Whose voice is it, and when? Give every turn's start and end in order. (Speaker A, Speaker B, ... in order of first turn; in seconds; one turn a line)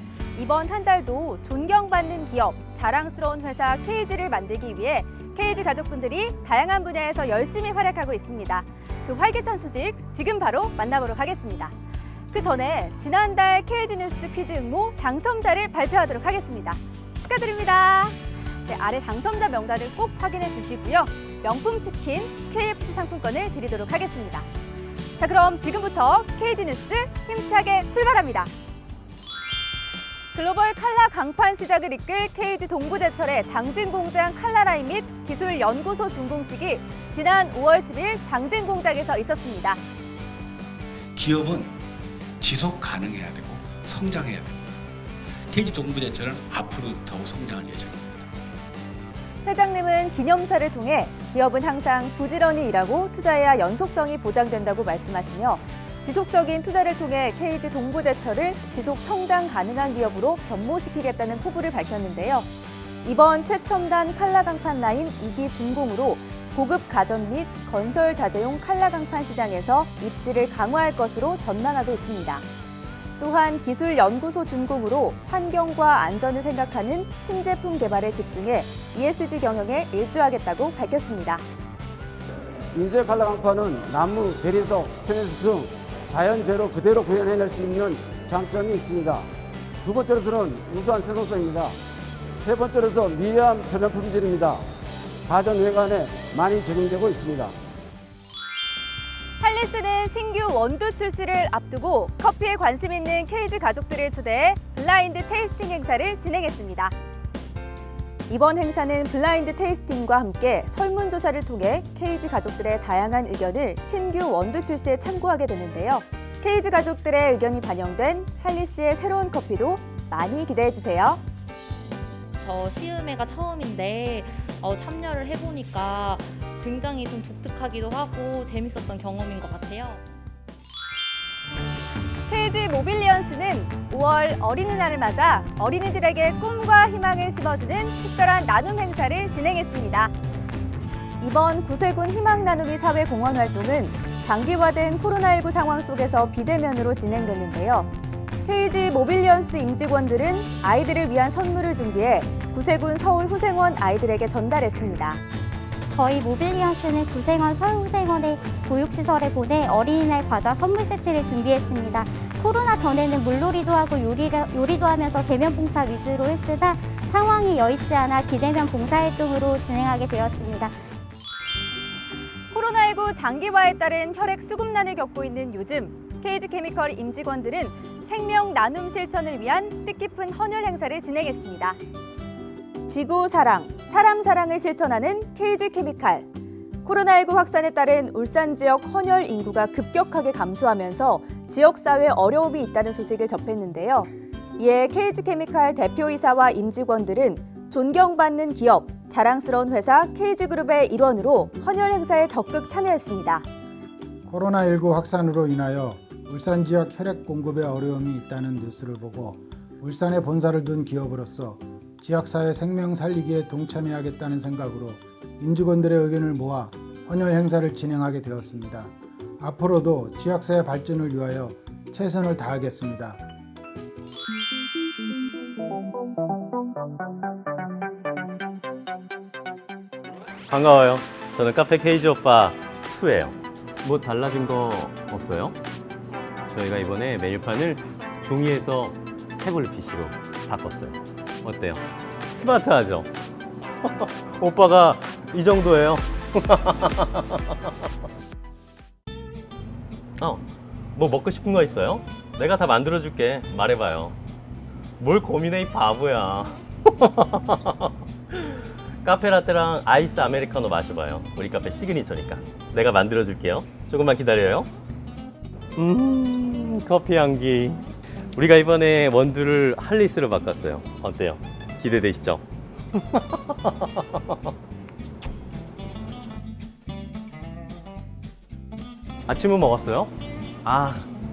Speaker A: 0.3-11.7
Speaker A: 12.3-24.5
Speaker A: 25.2-28.5
Speaker A: 30.3-39.8
Speaker B: 41.1-41.8
Speaker B: 42.4-44.6
Speaker B: 45.5-48.3
Speaker A: 49.4-62.5
Speaker A: 63.0-72.4
Speaker A: 73.2-81.4
Speaker C: 82.7-89.3
Speaker C: 89.8-91.7
Speaker C: 92.4-94.6
Speaker C: 95.3-97.5
Speaker A: 99.4-106.9
Speaker A: 108.3-121.2
Speaker D: 122.4-130.0
Speaker A: 132.3-140.1
Speaker A: 141.2-147.9
Speaker A: 148.4-155.2
Speaker E: 155.9-170.7
Speaker A: 172.5-181.8
Speaker A: 182.9-186.3
Speaker A: 186.8-203.4
Speaker F: 204.3-223.2
Speaker G: 230.5-235.6
Speaker G: 236.5-243.1
Speaker G: 243.8-247.4
Speaker G: 250.2-250.4
Speaker G: 250.9-254.2
Speaker G: 255.0-264.7
Speaker G: 265.8-272.4
Speaker G: 272.9-274.2
Speaker G: 279.3-280.1
Speaker G: 280.6-281.1